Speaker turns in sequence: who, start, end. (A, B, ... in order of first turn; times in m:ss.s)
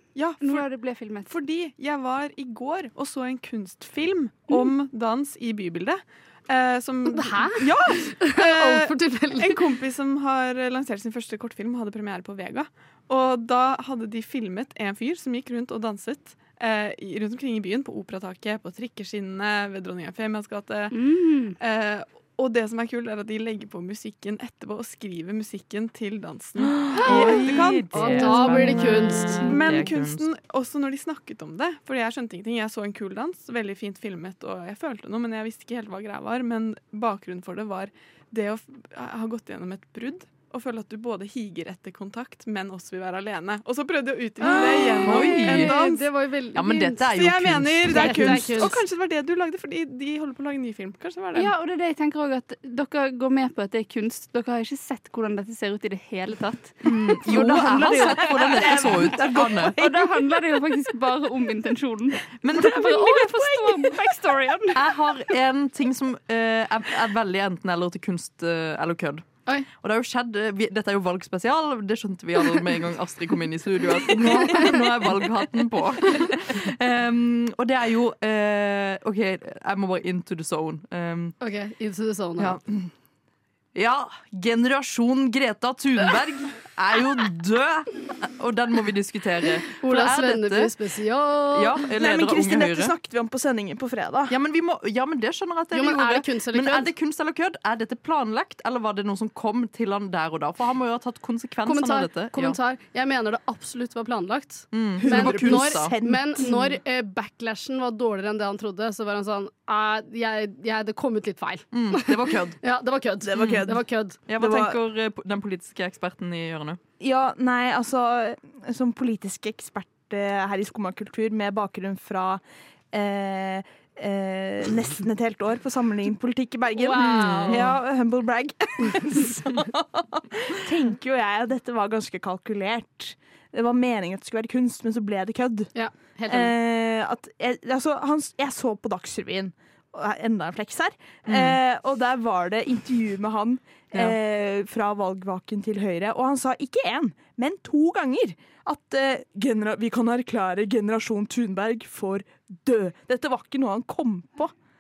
0:00.2-0:00.7 A
0:00.4-0:01.3 B
0:01.3-0:21.0 A
0:07.1-0:09.6 C
0:20.9-0:21.6 B
0:21.6-0:46.0 A
0:26.9-0:30.3 D
0:28.0-0:29.5 C
0:44.4-0:47.1 C
0:45.0-0:45.8 D
0:46.5-0:48.6 D
0:47.1-0:51.5 A
0:47.9-0:48.8 C
0:51.3-1:04.8 B
0:56.8-0:59.8 D
0:57.3-1:00.0 E
1:02.4-1:03.5 D
1:04.7-1:21.4 D
1:21.4-1:22.6 C
1:22.4-1:22.9 D
1:23.7-1:30.7 D
1:29.8-1:31.8 C
1:31.5-1:33.0 D
1:31.9-1:34.3 E
1:34.3-1:42.6 D
1:35.7-1:36.9 C
1:41.6-1:54.2 C
1:44.7-1:46.0 D
1:45.0-1:46.6 E
1:51.7-1:52.6 D
1:53.2-1:54.8 E
1:53.4-1:53.7 D
1:54.3-1:56.8 D
1:57.0-2:02.4 E
2:02.9-2:15.7 E
2:06.8-2:07.7 C
2:07.0-2:07.8 D
2:15.7-2:16.5 C
2:16.3-2:34.5 E
2:21.3-2:21.6 D